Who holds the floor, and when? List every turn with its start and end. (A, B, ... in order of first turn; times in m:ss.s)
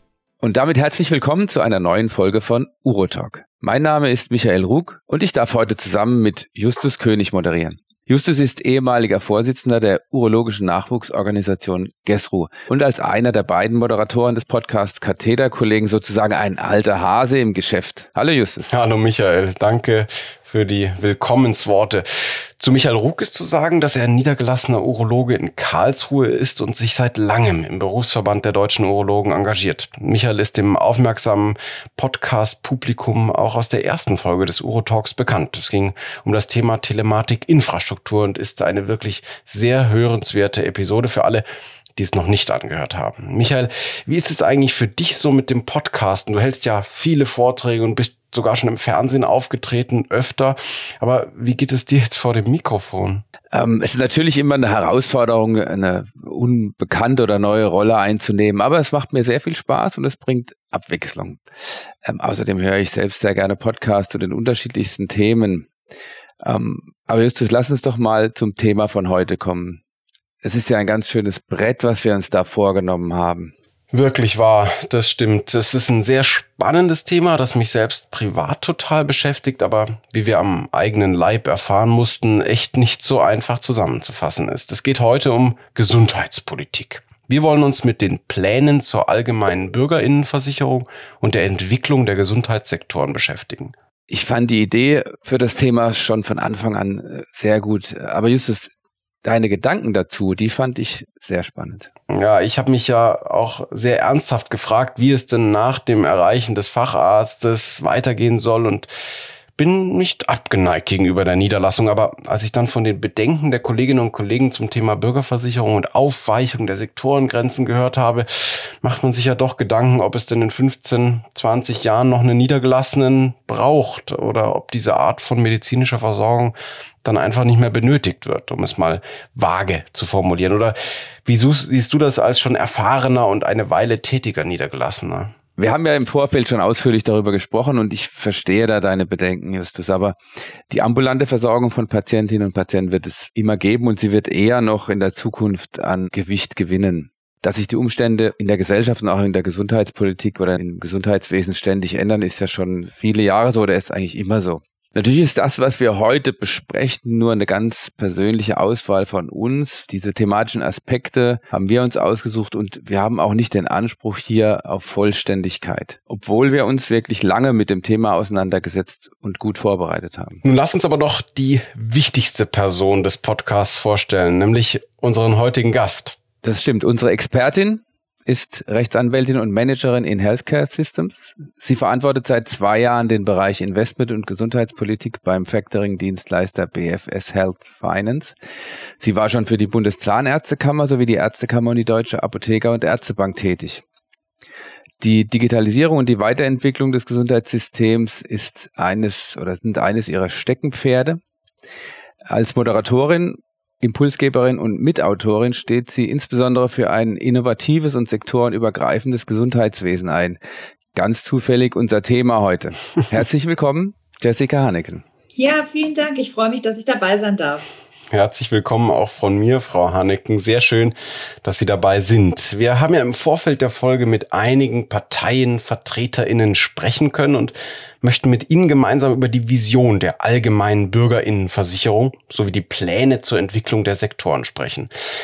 0:00.4-0:18.6 A
0:18.7-0:22.0 B
0:22.6-0:41.4 B
0:42.0-0:53.2 B
0:53.5-1:01.4 A
1:02.0-1:05.7 A
1:06.4-1:09.8 A
1:10.4-1:13.5 A
1:13.9-1:33.7 B
1:34.1-1:38.7 A
1:39.2-1:41.9 A
1:42.1-1:48.9 B
1:49.6-2:15.3 B
2:15.6-2:20.2 A
2:20.7-2:50.4 A
2:50.4-2:56.2 B
2:56.4-3:08.3 A
3:09.0-3:13.8 A
3:15.0-3:21.2 A
3:22.3-3:30.4 A
3:30.9-3:35.0 A
3:35.3-3:37.6 C
3:38.1-3:54.9 B